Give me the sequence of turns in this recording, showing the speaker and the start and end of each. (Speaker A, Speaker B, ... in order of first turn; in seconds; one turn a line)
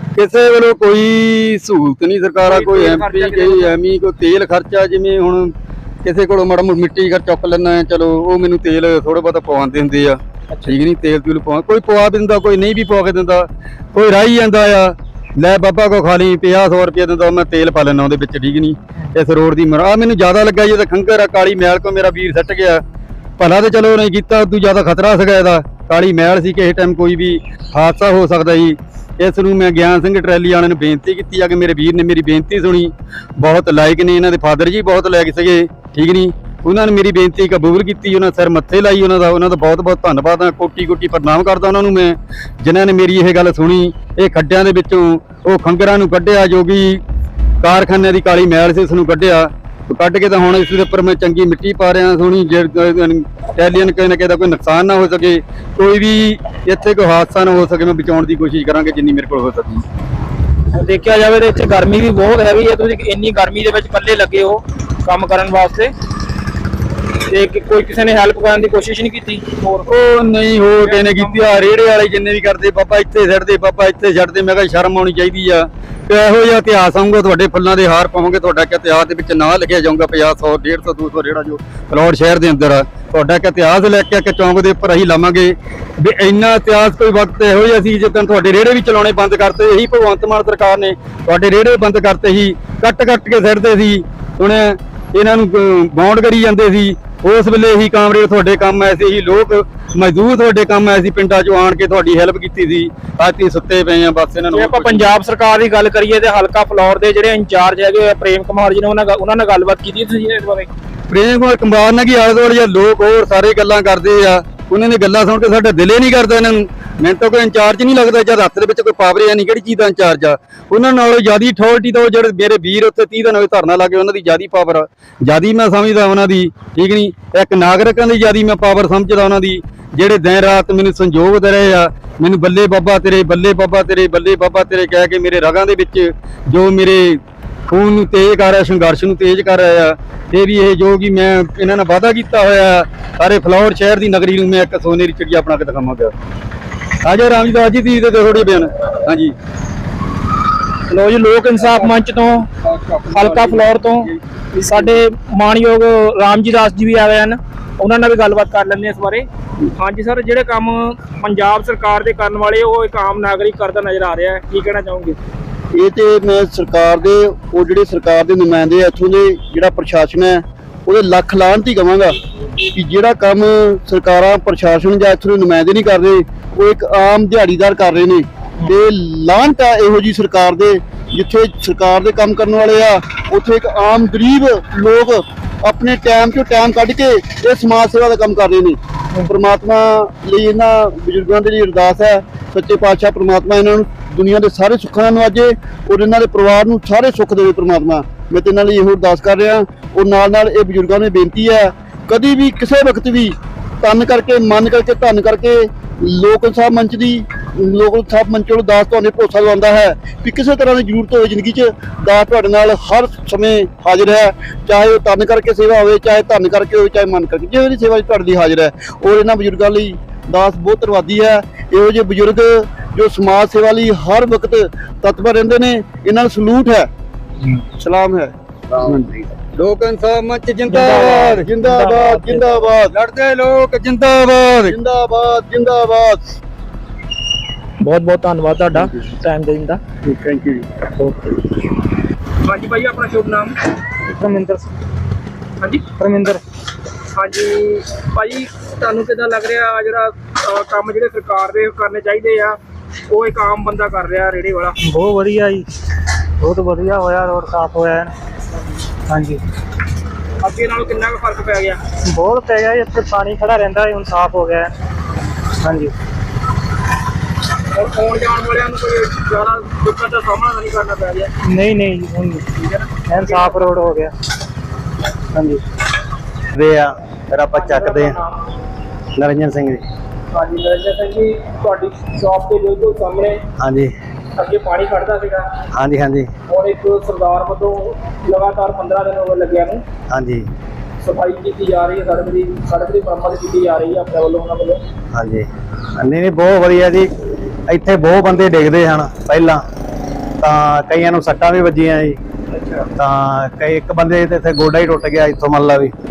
Speaker A: 0.1-5.5
Speaker B: 2.4-3.8
Speaker A: 6.0-22.8
Speaker B: 10.5-10.8
Speaker A: 23.4-47.0
Speaker A: 47.6-59.8
Speaker B: 60.7-65.9
Speaker B: 67.3-69.8
Speaker A: 69.9-105.1
Speaker B: 70.8-71.4
Speaker B: 104.5-110.7
Speaker A: 111.1-146.1
Speaker A: 147.0-149.3
Speaker B: 150.9-152.5
Speaker A: 151.6-151.9
Speaker A: 152.6-153.8
Speaker B: 153.1-165.2
Speaker C: 165.7-172.1
Speaker C: 172.7-226.9
Speaker C: 227.8-228.3
Speaker A: 228.8-231.5
Speaker B: 230.7-232.5
Speaker C: 231.4-232.9
Speaker A: 232.9-234.8
Speaker C: 234.7-236.2
Speaker B: 237.8-239.8
Speaker A: 240.0-240.7
Speaker B: 242.4-243.6
Speaker D: 244.2-244.7
Speaker D: 246.0-246.4
Speaker B: 247.1-254.8
Speaker D: 254.8-255.7
Speaker D: 256.4-258.1
Speaker D: 259.1-259.4
Speaker B: 260.4-261.8
Speaker D: 262.1-264.7
Speaker D: 265.6-265.9
Speaker B: 267.7-271.3
Speaker D: 271.4-272.4
Speaker B: 272.6-273.8
Speaker D: 273.1-274.1
Speaker D: 275.3-275.6
Speaker E: 276.5-278.2
Speaker B: 277.5-278.4
Speaker E: 279.2-279.8
Speaker B: 280.3-283.4
Speaker E: 283.6-283.9
Speaker B: 284.4-285.5
Speaker E: 285.7-286.3
Speaker B: 286.5-289.8
Speaker E: 290.1-290.5
Speaker B: 291.0-294.8
Speaker E: 295.1-295.5
Speaker E: 296.0-297.1
Speaker E: 297.7-299.6
Speaker E: 300.4-302.2
Speaker B: 302.5-302.9
Speaker E: 302.9-305.9